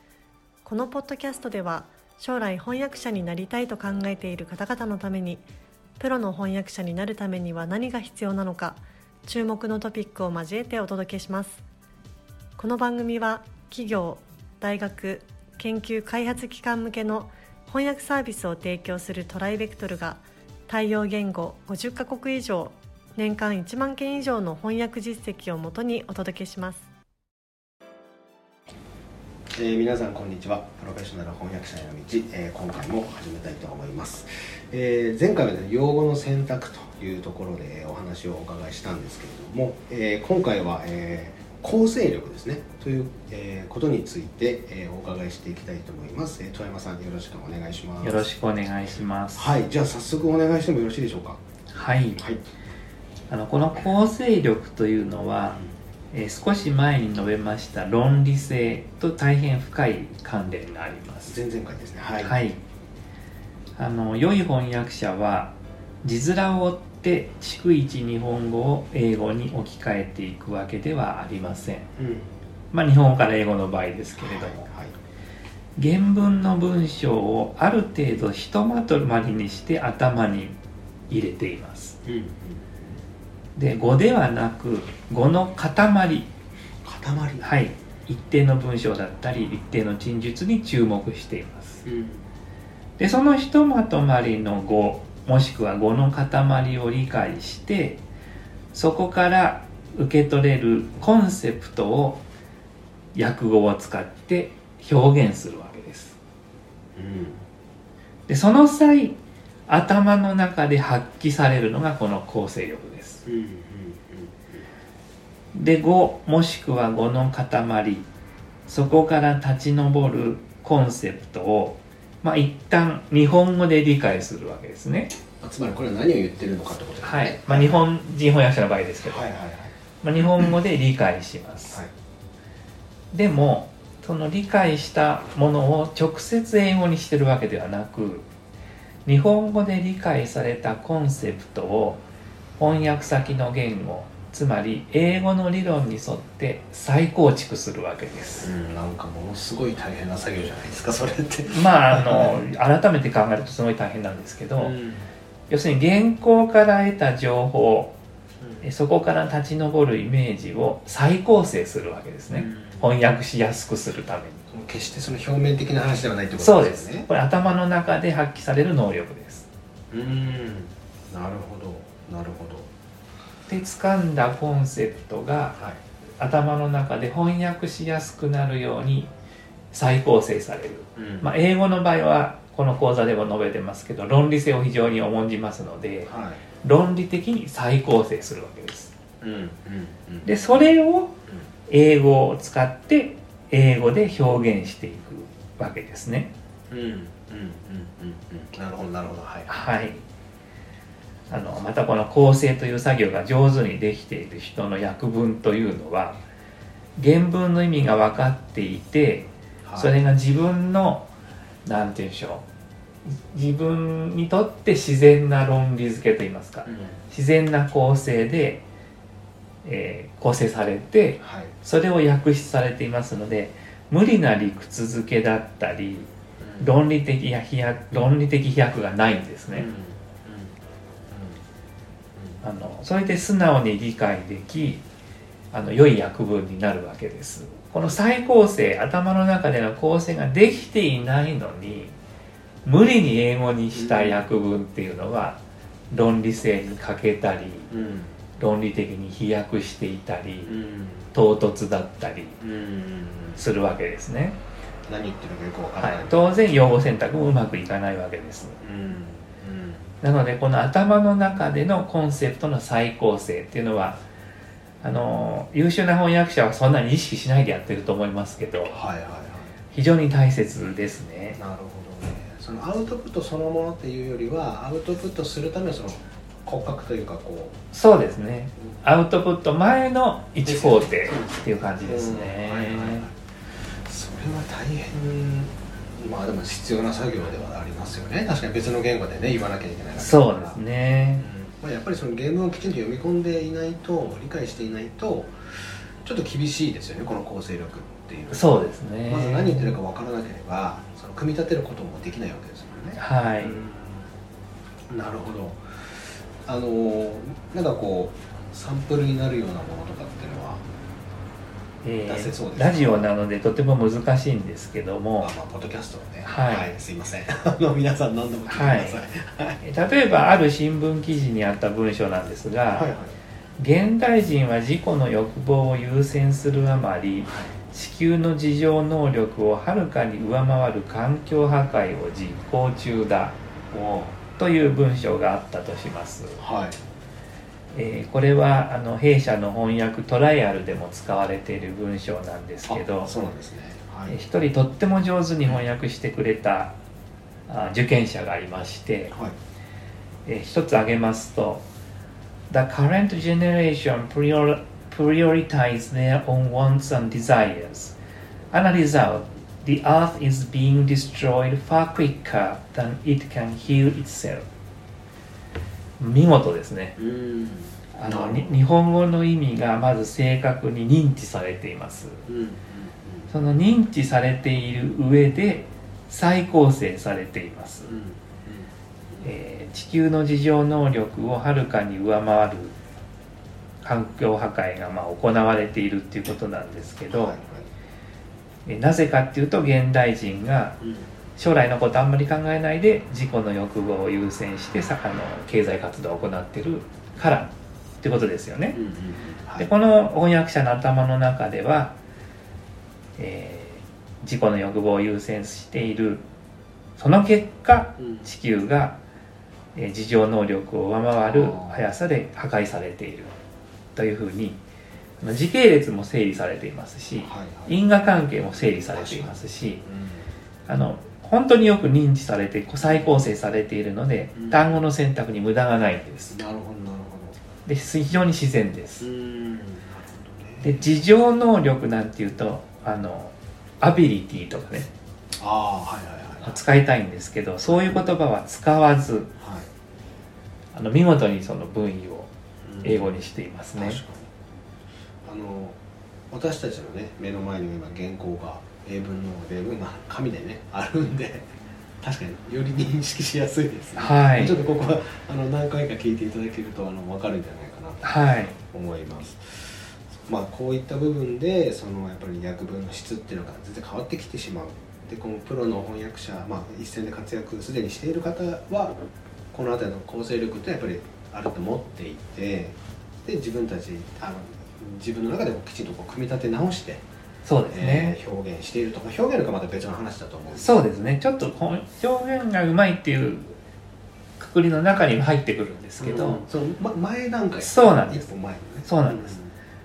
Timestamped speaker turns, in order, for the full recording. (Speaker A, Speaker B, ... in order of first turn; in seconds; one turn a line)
Speaker A: 0.6-5.5
Speaker A: 6.0-11.6
Speaker A: 12.6-26.9
Speaker B: 29.5-48.3
Speaker C: 48.0-49.6
Speaker B: 49.4-51.4
Speaker C: 51.7-52.2
Speaker B: 52.1-52.4
Speaker C: 53.3-55.6
Speaker C: 56.1-61.4
Speaker B: 61.3-62.4
Speaker C: 62.2-62.6
Speaker C: 63.8-71.9
Speaker B: 72.0-72.3
Speaker C: 72.7-74.6
Speaker B: 74.2-75.0
Speaker C: 75.8-80.6
Speaker C: 81.1-82.0
Speaker B: 82.0-83.0
Speaker C: 83.5-86.3
Speaker B: 86.8-87.5
Speaker C: 87.4-91.8
Speaker B: 91.8-92.3
Speaker C: 93.0-98.0
Speaker C: 98.7-102.2
Speaker C: 103.1-106.2
Speaker B: 106.9-107.4
Speaker C: 108.3-109.2
Speaker C: 109.7-113.2
Speaker B: 113.2-114.7
Speaker C: 115.5-118.1
Speaker C: 118.7-125.1
Speaker B: 125.4-127.8
Speaker C: 127.0-129.2
Speaker B: 129.0-129.7
Speaker C: 130.0-131.8
Speaker C: 133.1-138.3
Speaker C: 139.1-142.0
Speaker C: 142.6-148.5
Speaker B: 148.4-152.3
Speaker C: 151.5-154.7
Speaker B: 154.6-155.1
Speaker C: 155.5-158.0
Speaker C: 158.6-164.4
Speaker B: 162.3-162.9
Speaker B: 164.5-167.1
Speaker C: 166.4-169.5
Speaker B: 169.9-172.7
Speaker C: 173.5-175.6
Speaker C: 176.2-179.1
Speaker C: 179.7-188.9
Speaker B: 180.9-181.3
Speaker B: 186.1-186.4
Speaker B: 189.2-190.4
Speaker C: 190.2-191.2
Speaker C: 191.7-196.3
Speaker B: 196.7-199.5
Speaker C: 199.5-200.0
Speaker C: 201.3-206.2
Speaker C: 207.0-211.1
Speaker B: 209.6-209.9
Speaker C: 211.6-212.4
Speaker C: 213.1-218.6
Speaker B: 216.7-217.0
Speaker C: 219.6-226.1
Speaker B: 221.2-221.5
Speaker B: 226.4-226.7
Speaker C: 226.6-229.7
Speaker B: 229.5-230.5
Speaker B: 231.1-231.4
Speaker C: 232.4-234.8
Speaker C: 235.5-241.9
Speaker C: 242.6-247.7
Speaker B: 243.7-244.2
Speaker B: 247.7-248.2
Speaker C: 248.4-250.6
Speaker B: 250.5-251.1
Speaker C: 251.1-252.4
Speaker B: 252.4-253.5
Speaker C: 253.3-254.4
Speaker B: 254.8-256.6
Speaker C: 255.8-258.6
Speaker B: 258.6-259.9
Speaker C: 260.0-264.0
Speaker C: 264.8-268.8
Speaker B: 268.6-269.5
Speaker C: 269.7-271.4
Speaker B: 271.4-277.6
Speaker C: 277.7-283.1
Speaker B: 280.4-283.1
Speaker B: 283.8-290.6
Speaker C: 290.0-291.2
Speaker B: 291.2-304.1
Speaker C: 298.3-299.8
Speaker C: 302.9-303.6
Speaker B: 304.9-310.6
Speaker C: 311.8-315.3
Speaker B: 312.1-313.1
Speaker B: 315.2-319.6
Speaker C: 316.2-316.8
Speaker C: 318.5-319.0
Speaker C: 319.6-322.9
Speaker B: 322.7-323.1
Speaker C: 323.6-333.4
Speaker B: 333.7-334.2
Speaker C: 334.4-336.4
Speaker B: 336.4-336.8
Speaker C: 337.7-343.1
Speaker B: 342.7-344.2
Speaker C: 344.1-346.7
Speaker C: 347.5-349.1
Speaker B: 349.1-349.4
Speaker C: 350.2-351.6
Speaker C: 352.5-358.0
Speaker C: 358.5-364.4
Speaker C: 366.0-367.0
Speaker B: 367.0-368.6
Speaker C: 367.9-372.2
Speaker B: 372.3-373.3
Speaker C: 373.3-377.9
Speaker B: 377.8-379.3
Speaker C: 379.2-382.8
Speaker C: 383.8-387.4
Speaker B: 387.1-387.7
Speaker C: 388.6-390.8
Speaker B: 390.8-391.1
Speaker C: 391.4-398.8
Speaker B: 398.7-399.7
Speaker C: 399.6-402.0
Speaker C: 403.2-406.2
Speaker C: 407.0-409.0
Speaker B: 408.0-408.3
Speaker C: 409.7-413.3
Speaker B: 411.2-411.9
Speaker C: 413.9-414.6
Speaker C: 415.2-419.8
Speaker B: 417.2-417.8
Speaker B: 418.9-420.3
Speaker C: 420.7-426.4
Speaker B: 424.3-424.8
Speaker B: 426.3-427.4
Speaker C: 427.6-429.1
Speaker B: 429.0-430.8
Speaker C: 430.6-434.9
Speaker B: 435.4-436.6
Speaker C: 436.4-439.3
Speaker B: 437.6-438.0
Speaker B: 439.4-439.7
Speaker C: 440.7-442.3
Speaker B: 442.6-443.2
Speaker C: 442.8-444.0
Speaker B: 443.8-444.3
Speaker B: 445.2-445.8
Speaker B: 446.3-468.9
Speaker C: 453.9-454.6
Speaker C: 458.0-458.6
Speaker B: 469.5-477.0
Speaker C: 477.4-478.2
Speaker B: 477.7-480.8
Speaker C: 480.5-483.6
Speaker C: 484.4-486.4
Speaker B: 486.0-489.5
Speaker C: 487.6-488.3
Speaker C: 488.8-489.4